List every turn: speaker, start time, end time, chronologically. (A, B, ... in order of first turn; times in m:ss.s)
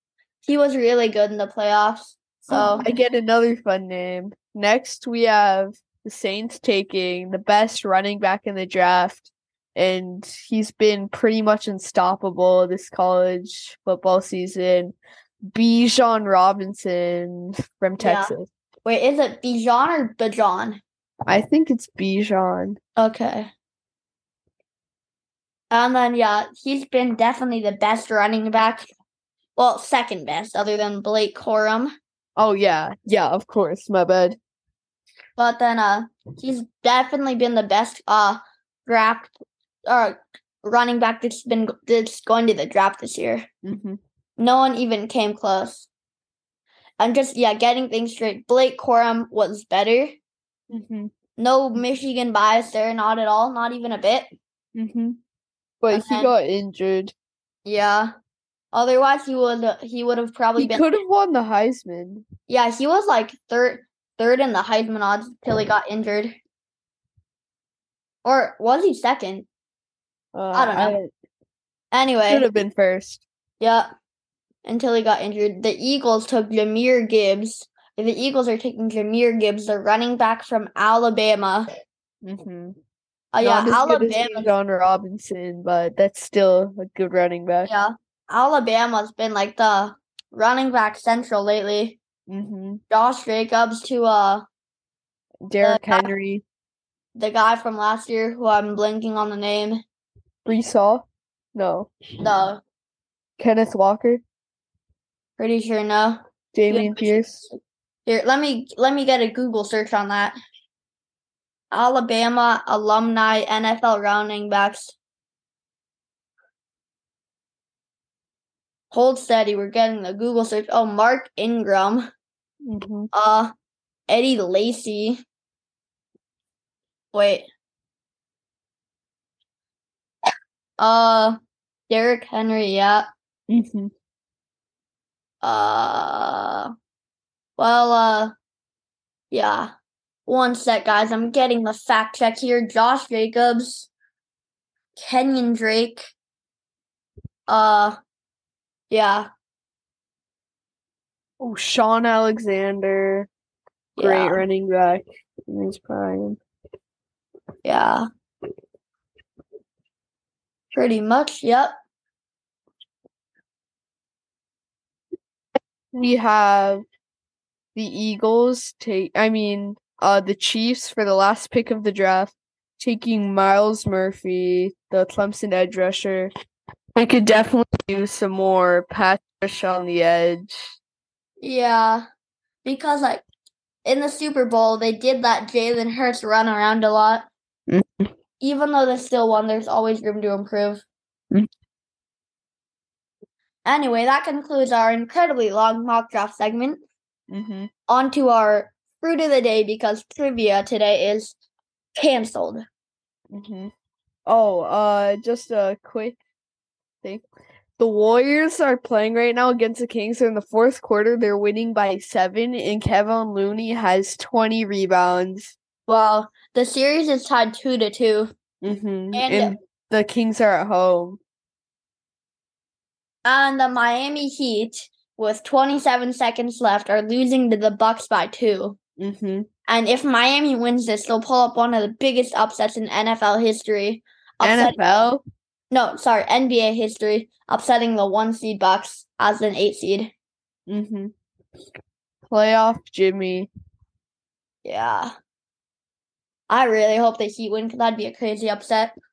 0:00.4-0:02.9 A
0:02.5-0:14.9 B
0:15.5-0:18.5 B
0:18.0-0:18.3 A
0:18.8-0:20.8 A
0:21.2-0:22.8 B
0:23.0-0:23.5 A
0:25.7-0:28.8 A
0:29.6-0:31.9 A
0:32.4-0:34.4 B
0:35.4-0:39.3 A
0:39.8-0:43.5 A
0:43.6-0:44.0 B
0:44.4-0:45.9 A
0:47.0-0:50.2 A
0:50.7-0:51.1 B
0:51.4-0:54.3 A
0:54.8-0:55.2 B
0:55.8-0:57.1 B
0:55.9-0:56.3 A
0:57.6-0:58.1 A
0:58.7-1:00.9 A
1:00.6-1:02.2 B
1:02.5-1:06.4 A
1:08.2-1:09.5 A
1:10.3-1:11.1 B
1:10.5-1:11.0 A
1:11.9-1:12.5 A
1:12.3-1:13.2 B
1:13.6-1:13.9 A
1:14.6-1:21.7 A
1:22.2-1:22.8 B
1:23.3-1:24.5 A
1:23.4-1:27.7 B
1:27.6-1:32.0 A
1:32.3-1:32.8 B
1:32.9-1:34.4 A
1:35.4-1:36.4 B
1:35.6-1:36.1 A
1:37.2-1:39.8 A
1:40.4-1:41.9 B
1:42.2-1:42.6 A
1:43.4-1:44.2 B
1:45.4-1:47.5 A
1:46.5-1:47.4 B
1:48.0-1:50.3 A
1:51.7-1:55.0 A
1:58.9-2:02.1 A
2:02.6-2:03.1 B
2:03.1-2:03.5 A
2:04.1-2:05.2 A
2:07.1-2:07.5 A
2:10.8-2:11.4 A
2:11.9-2:13.1 A
2:13.5-2:13.9 B
2:15.4-2:16.7 A
2:17.6-2:18.3 A
2:19.3-2:19.7 A
2:20.2-2:23.9 A
2:25.0-2:26.1 A
2:27.5-2:28.0 A
2:28.9-2:29.3 A
2:31.4-2:33.3 B
2:34.0-2:34.4 A
2:34.0-2:36.4 B
2:37.6-2:38.0 A
2:40.7-2:41.7 A
2:45.9-2:46.8 B
2:47.8-2:56.3 B
2:57.0-3:00.7 B
3:01.4-3:02.0 A
3:02.6-3:03.2 A
3:03.8-3:07.3 A
3:07.7-3:08.1 B
3:08.4-3:10.8 A
3:13.6-3:16.8 A
3:17.3-3:17.7 B
3:17.9-3:21.4 A
3:22.0-3:22.6 A
3:23.3-3:23.7 B
3:24.2-3:26.2 B
3:27.8-3:35.6 B
3:35.9-3:38.3 A
3:38.6-3:41.2 B
3:39.1-3:39.5 A
3:43.2-3:48.8 A
3:49.0-3:49.5 B
3:49.7-3:55.0 A
3:54.4-3:55.2 B
3:55.7-4:00.1 A
4:00.7-4:01.1 B
4:02.3-4:03.5 B
4:04.6-4:05.1 A
4:06.5-4:09.0 A